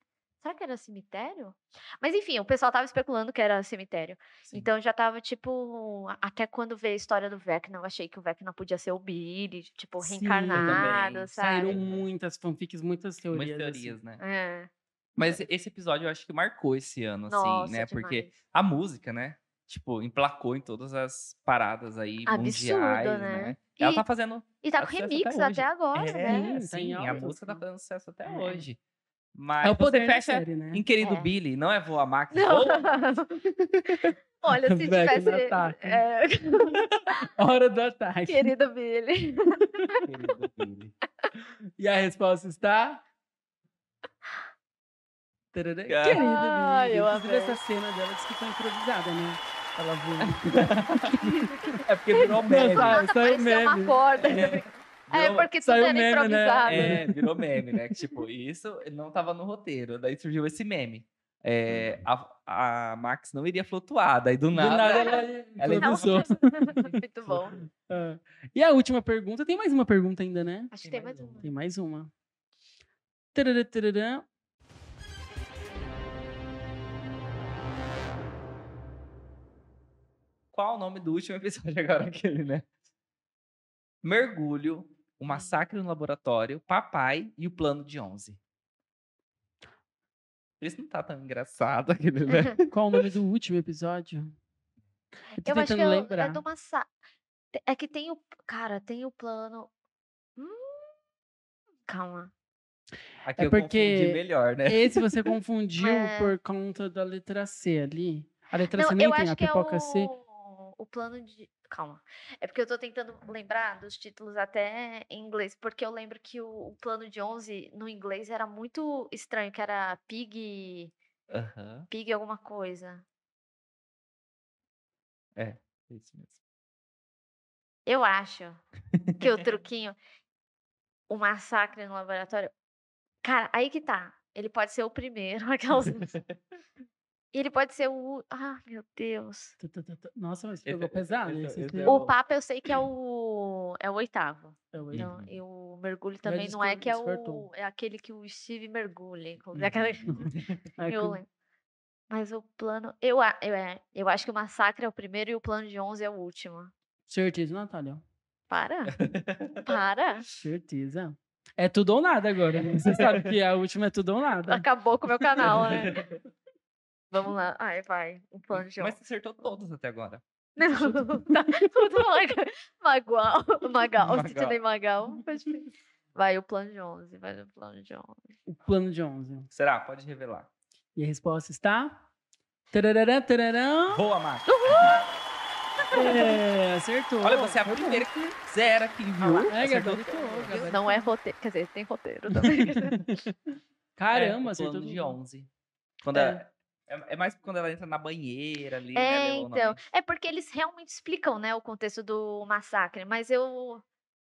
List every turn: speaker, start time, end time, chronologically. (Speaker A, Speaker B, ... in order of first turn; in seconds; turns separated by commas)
Speaker A: 0.4-11.8, Speaker B: 10.0-13.9, Speaker C: 10.5-12.1, Speaker C: 13.3-14.2, Speaker A: 14.2-14.7, Speaker C: 15.2-28.8, Speaker A: 17.3-18.3, Speaker A: 22.3-24.1, Speaker A: 24.6-26.5, Speaker B: 26.1-27.6, Speaker B: 28.3-28.6, Speaker C: 29.3-33.0, Speaker B: 29.6-30.8, Speaker A: 31.0-31.3, Speaker A: 32.3-33.3, Speaker A: 34.4-36.8, Speaker B: 34.6-36.0, Speaker B: 37.4-38.5, Speaker A: 38.3-40.0, Speaker C: 40.0-40.9, Speaker B: 41.8-43.0, Speaker B: 45.5-54.0, Speaker C: 45.9-46.2, Speaker A: 46.1-47.6, Speaker C: 50.3-53.0, Speaker A: 51.5-57.0, Speaker C: 54.2-55.5, Speaker B: 55.6-58.1, Speaker C: 56.7-66.3, Speaker B: 61.7-62.0, Speaker B: 64.5-70.7, Speaker A: 64.9-65.2, Speaker A: 65.8-67.6, Speaker A: 70.7-71.5, Speaker C: 70.8-71.4, Speaker B: 71.4-72.1, Speaker B: 73.3-74.3, Speaker C: 80.5-82.7, Speaker C: 84.0-88.4, Speaker A: 85.3-85.6, Speaker C: 90.6-92.7, Speaker A: 92.3-92.5, Speaker B: 92.7-94.3, Speaker B: 95.4-96.4, Speaker A: 95.4-96.9, Speaker A: 97.5-99.7, Speaker A: 100.4-101.0, Speaker A: 101.9-102.3, Speaker C: 103.2-105.0, Speaker B: 103.4-110.1, Speaker A: 105.8-106.3, Speaker A: 108.7-120.9, Speaker C: 121.3-121.9, Speaker A: 121.9-123.0, Speaker C: 125.3-126.4, Speaker A: 127.8-128.6, Speaker A: 129.2-129.9, Speaker A: 131.1-132.5, Speaker A: 133.2-136.1, Speaker C: 136.1-136.3, Speaker A: 137.3-139.6, Speaker B: 139.6-142.1, Speaker C: 140.6-142.1, Speaker A: 141.8-150.3, Speaker B: 144.7-145.1, Speaker C: 144.9-145.3, Speaker B: 146.2-147.5, Speaker C: 149.5-150.6, Speaker B: 150.1-151.2, Speaker A: 150.8-151.3, Speaker A: 152.1-156.7, Speaker B: 157.1-158.0, Speaker A: 158.5-158.9, Speaker C: 158.9-159.7, Speaker A: 159.6-160.3, Speaker B: 160.4-164.6, Speaker C: 162.6-163.3, Speaker A: 164.5-166.0, Speaker C: 165.4-166.1, Speaker A: 167.1-169.0, Speaker C: 168.8-170.2, Speaker A: 170.6-178.2, Speaker B: 170.6-171.3, Speaker C: 174.0-174.6, Speaker B: 178.5-179.5, Speaker C: 179.5-180.5, Speaker B: 180.9-182.1, Speaker B: 182.7-184.0, Speaker C: 183.9-185.0, Speaker A: 184.5-185.1, Speaker A: 185.8-186.4, Speaker B: 185.9-188.1, Speaker C: 187.2-190.7, Speaker A: 189.2-189.5, Speaker B: 189.4-191.1, Speaker A: 190.5-193.2, Speaker B: 192.3-193.3, Speaker B: 194.0-195.2, Speaker C: 194.1-195.5, Speaker C: 196.0-199.8, Speaker B: 196.1-196.4, Speaker A: 198.9-203.8